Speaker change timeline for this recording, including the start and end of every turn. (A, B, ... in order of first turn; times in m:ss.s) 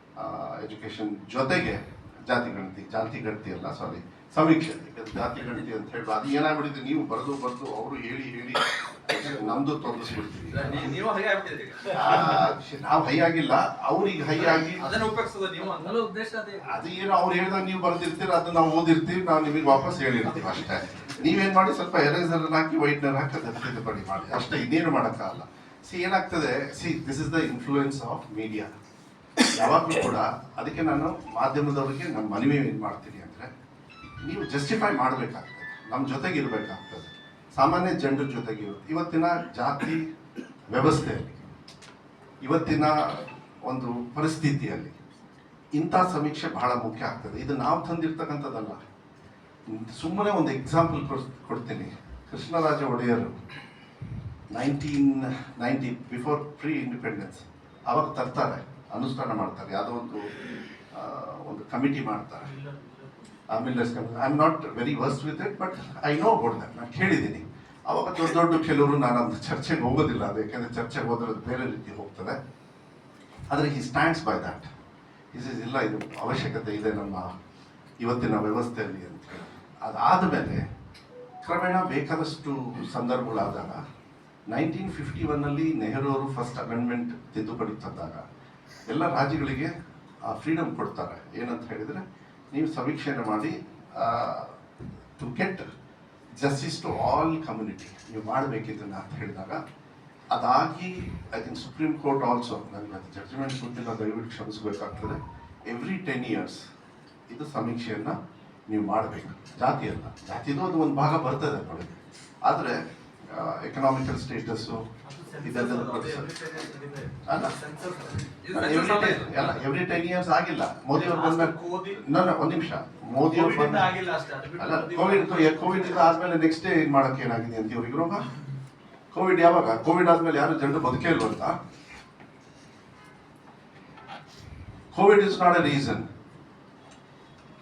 0:00.2-0:11.0 A
0:09.2-0:09.6 B
0:10.5-0:12.4 B
0:11.9-0:15.0 A
0:14.3-0:16.2 B
0:15.9-0:16.5 C
0:16.6-0:28.7 A
0:29.5-0:33.5 A
0:34.2-0:40.1 A
0:40.7-0:41.4 A
0:42.4-0:45.0 A
0:45.8-0:48.8 A
0:49.7-0:53.3 A
0:54.5-1:02.5 A
1:02.5-1:03.4 C
1:03.5-1:12.4 A
1:13.5-1:14.7 A
1:15.3-1:17.3 A
1:18.0-1:20.6 A
1:21.4-1:23.8 A
1:24.5-1:28.2 A
1:28.9-1:29.7 A
1:30.2-1:34.6 A
1:35.2-1:35.6 A
1:36.4-1:39.6 A
1:40.3-1:46.6 A
1:47.3-1:48.2 A
1:48.7-1:56.3 A
1:55.0-1:58.2 C
1:57.3-1:57.6 A
1:58.0-1:59.6 B
1:58.5-2:03.9 A
2:01.0-2:01.7 B
2:01.2-2:02.0 C
2:03.3-2:06.0 C
2:04.6-2:08.3 A
2:09.1-2:11.6 A
2:14.9-2:16.1 A